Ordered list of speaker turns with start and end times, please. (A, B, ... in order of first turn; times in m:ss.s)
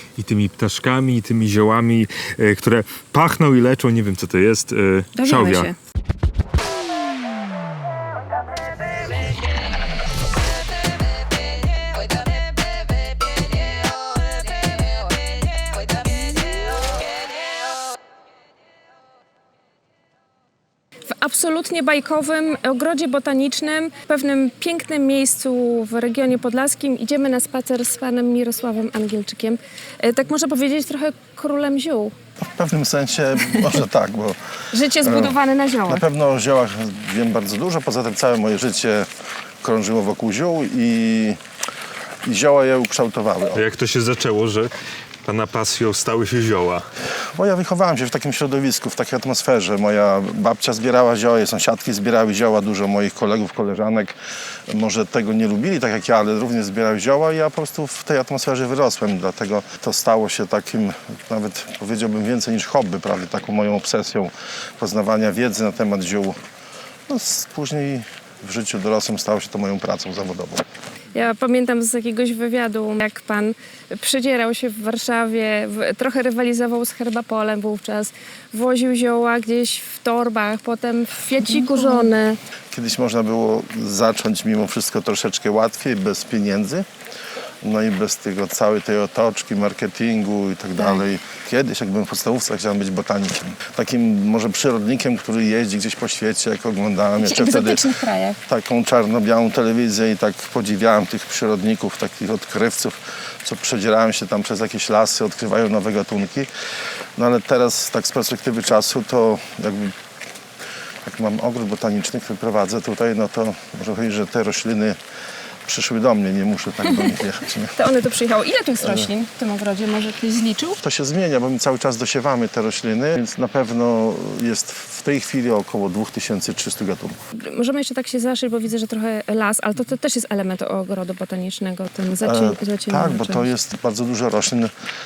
0:00.2-0:05.7 A
0:05.2-0:05.8 B
0:21.1-0:32.1 B
0:32.4-0:34.4 C
0:34.7-0:36.0 B
0:35.0-0:39.1 C
0:39.6-0:41.4 C
0:42.2-0:43.6 C
0:43.5-0:44.7 A
0:45.2-0:46.9 A
0:47.3-0:54.2 C
0:54.7-1:06.4 C
1:07.1-1:10.6 C
1:11.1-1:22.4 B
1:22.7-1:26.8 C
1:27.6-1:37.8 C
1:30.8-1:31.0 B
1:37.2-1:38.4 B
1:38.5-1:46.5 C
1:47.2-1:50.0 C
1:51.0-1:55.0 C
1:55.7-1:57.8 C
1:57.8-2:00.8 B
2:00.8-2:07.2 C
2:07.4-2:13.5 B
2:12.2-2:14.7 C